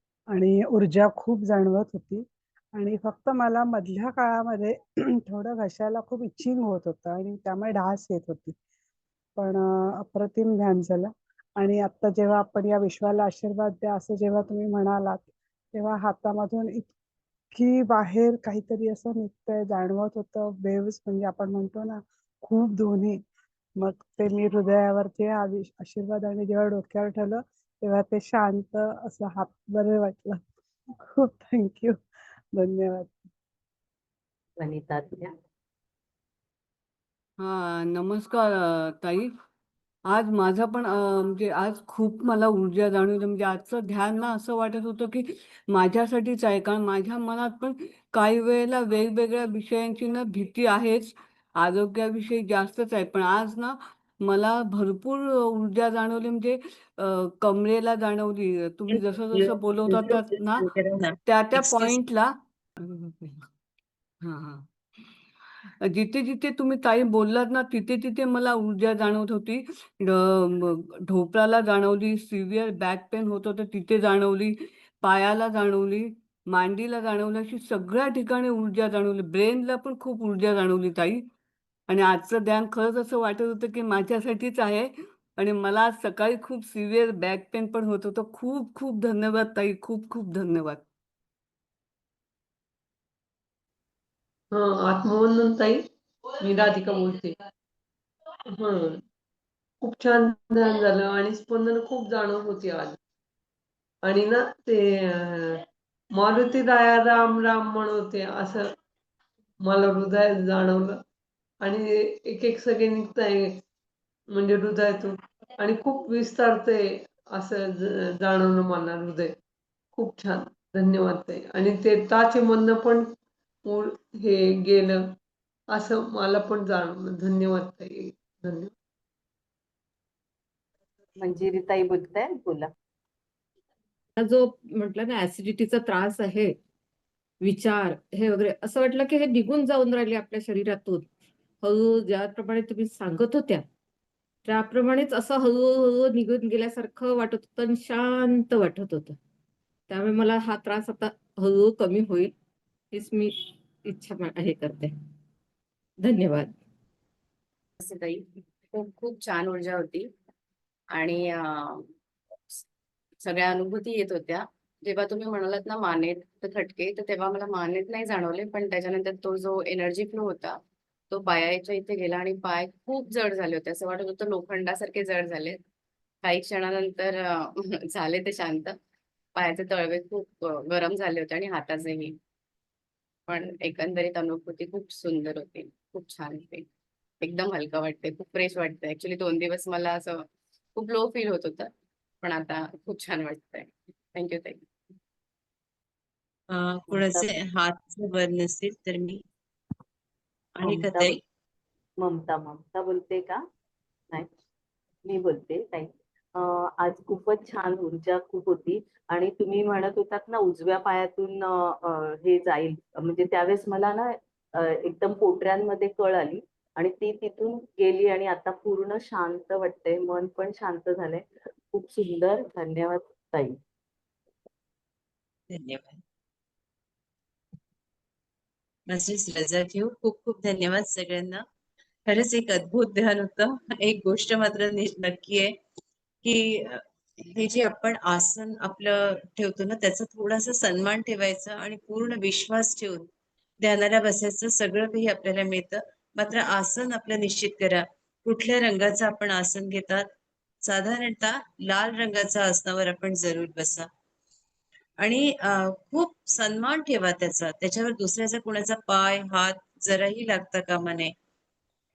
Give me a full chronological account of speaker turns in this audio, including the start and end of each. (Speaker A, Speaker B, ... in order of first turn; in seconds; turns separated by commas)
Speaker A: 0.3-8.6, Speaker A: 9.4-16.9, Speaker A: 17.5-23.2, Speaker A: 23.8-30.4, Speaker A: 31.0-32.0, Speaker A: 32.5-33.2, Speaker B: 34.6-35.3, Speaker C: 37.4-39.3, Speaker C: 40.1-60.7, Speaker D: 59.3-62.0, Speaker C: 61.2-63.5, Speaker C: 64.2-64.7, Speaker C: 65.8-81.2, Speaker C: 81.9-90.8, Speaker E: 94.5-95.8, Speaker E: 96.4-97.4, Speaker E: 98.5-99.0, Speaker E: 99.8-103.0, Speaker E: 104.0-105.6, Speaker E: 106.1-108.7, Speaker E: 109.6-111.0, Speaker E: 111.6-113.6, Speaker E: 114.3-119.3, Speaker E: 119.9-123.1, Speaker E: 123.6-125.1, Speaker E: 125.7-128.7, Speaker B: 131.2-132.7, Speaker F: 134.2-136.5, Speaker F: 137.4-141.1, Speaker F: 141.6-143.6, Speaker F: 144.4-149.2, Speaker F: 149.9-152.3, Speaker F: 152.9-153.3, Speaker F: 153.9-154.9, Speaker F: 156.0-156.6, Speaker G: 157.8-160.1, Speaker G: 160.9-161.9, Speaker G: 163.2-170.6, Speaker G: 171.1-175.6, Speaker G: 176.2-178.8, Speaker G: 179.3-182.2, Speaker G: 183.3-186.7, Speaker G: 187.2-190.2, Speaker G: 190.8-191.7, Speaker G: 192.2-194.6, Speaker D: 196.5-199.2, Speaker B: 196.9-197.3, Speaker D: 200.6-201.2, Speaker B: 200.6-201.2, Speaker B: 202.0-203.4, Speaker B: 205.1-223.6, Speaker D: 225.5-226.0, Speaker D: 228.9-231.4, Speaker D: 232.1-235.5, Speaker D: 236.2-236.8, Speaker D: 237.3-243.1, Speaker D: 243.6-250.0, Speaker D: 250.6-253.9, Speaker D: 255.0-261.1